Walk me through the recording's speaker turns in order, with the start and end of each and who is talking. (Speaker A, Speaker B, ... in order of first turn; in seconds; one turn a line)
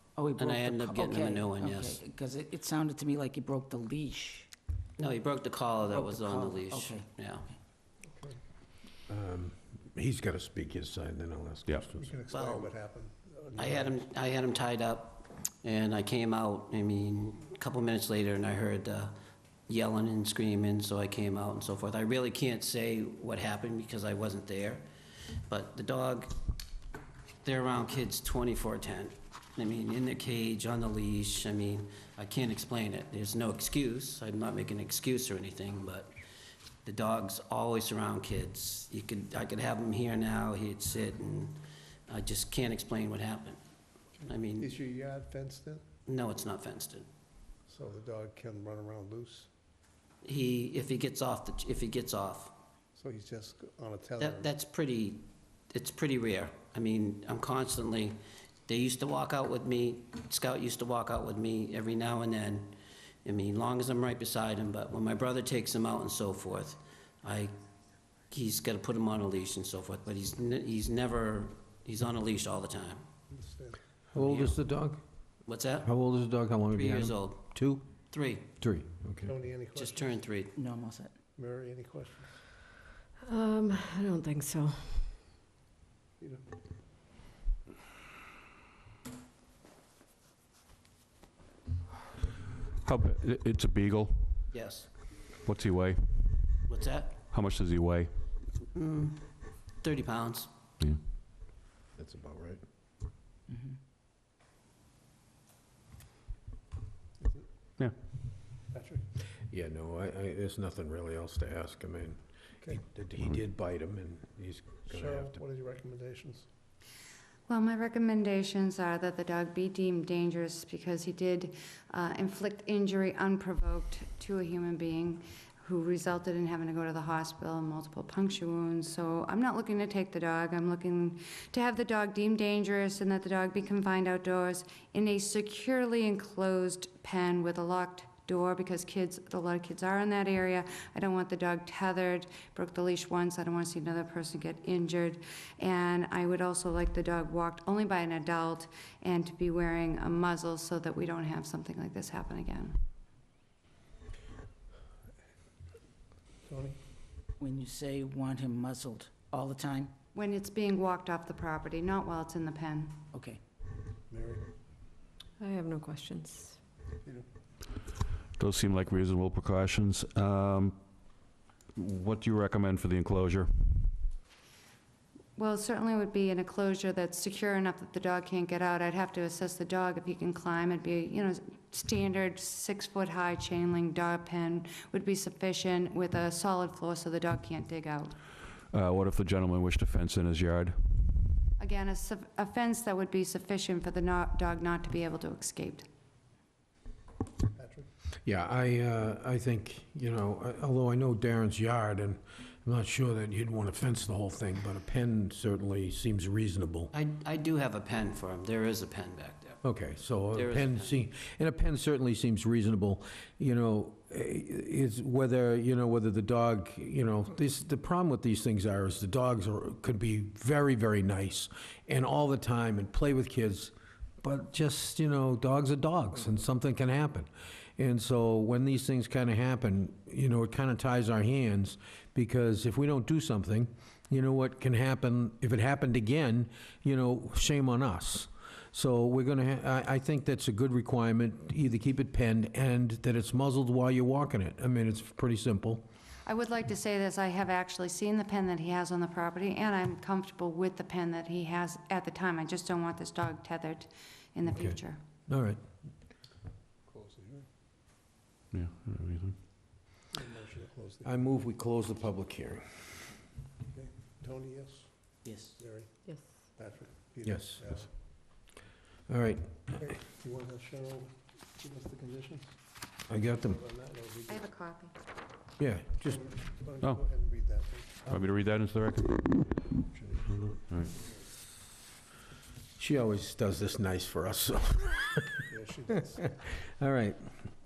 Speaker A: 0.2-4.5
Speaker B: 0.4-2.0
Speaker B: 5.0-7.5
Speaker A: 5.9-7.5
Speaker C: 8.1-8.4
Speaker D: 9.1-12.1
Speaker C: 12.0-14.1
Speaker B: 12.3-12.7
Speaker B: 13.6-24.9
Speaker B: 25.5-26.4
Speaker B: 27.4-36.1
Speaker B: 36.8-43.6
Speaker B: 44.2-44.7
Speaker C: 44.5-45.8
Speaker B: 46.0-47.1
Speaker C: 47.7-49.5
Speaker B: 50.2-52.5
Speaker C: 53.0-54.5
Speaker B: 54.2-67.6
Speaker B: 68.3-73.0
Speaker C: 73.3-73.8
Speaker B: 74.1-74.5
Speaker D: 74.1-75.0
Speaker B: 75.4-75.9
Speaker D: 75.8-77.8
Speaker B: 76.7-77.5
Speaker B: 78.1-78.5
Speaker D: 78.5-79.3
Speaker C: 79.2-80.2
Speaker B: 79.7-80.6
Speaker A: 80.5-81.1
Speaker C: 81.3-82.4
Speaker E: 83.2-85.1
Speaker F: 92.8-94.5
Speaker B: 94.5-94.9
Speaker F: 95.4-96.2
Speaker B: 96.7-97.2
Speaker F: 97.3-98.1
Speaker B: 98.6-100.5
Speaker D: 102.0-102.6
Speaker C: 107.2-107.5
Speaker C: 108.7-109.0
Speaker D: 109.5-115.4
Speaker C: 114.9-116.5
Speaker G: 117.5-152.8
Speaker C: 156.4-156.8
Speaker A: 157.4-159.9
Speaker G: 160.1-162.9
Speaker A: 163.1-163.4
Speaker C: 164.1-164.5
Speaker E: 165.4-166.6
Speaker C: 167.0-167.3
Speaker F: 168.3-170.8
Speaker F: 171.7-173.9
Speaker G: 175.3-188.1
Speaker F: 188.7-190.8
Speaker G: 191.6-195.9
Speaker C: 197.6-197.9
Speaker D: 198.2-206.9
Speaker B: 206.9-209.6
Speaker D: 209.6-245.8
Speaker B: 210.3-210.9
Speaker G: 246.2-255.0
Speaker D: 254.4-255.6
Speaker C: 256.9-257.5
Speaker F: 258.5-259.4
Speaker C: 260.1-261.2
Speaker D: 261.0-262.8
Speaker C: 263.7-267.9
Speaker A: 265.2-265.6
Speaker E: 266.1-266.3
Speaker D: 267.2-268.1
Speaker D: 269.1-269.6
Speaker C: 269.7-272.6
Speaker D: 273.1-273.6
Speaker C: 273.4-274.4
Speaker G: 274.3-274.9
Speaker D: 275.6-276.3
Speaker C: 276.0-278.1
Speaker F: 278.1-279.5
Speaker C: 279.8-280.5
Speaker F: 280.4-280.9
Speaker D: 282.8-285.3
Speaker C: 285.5-286.4
Speaker D: 286.6-287.2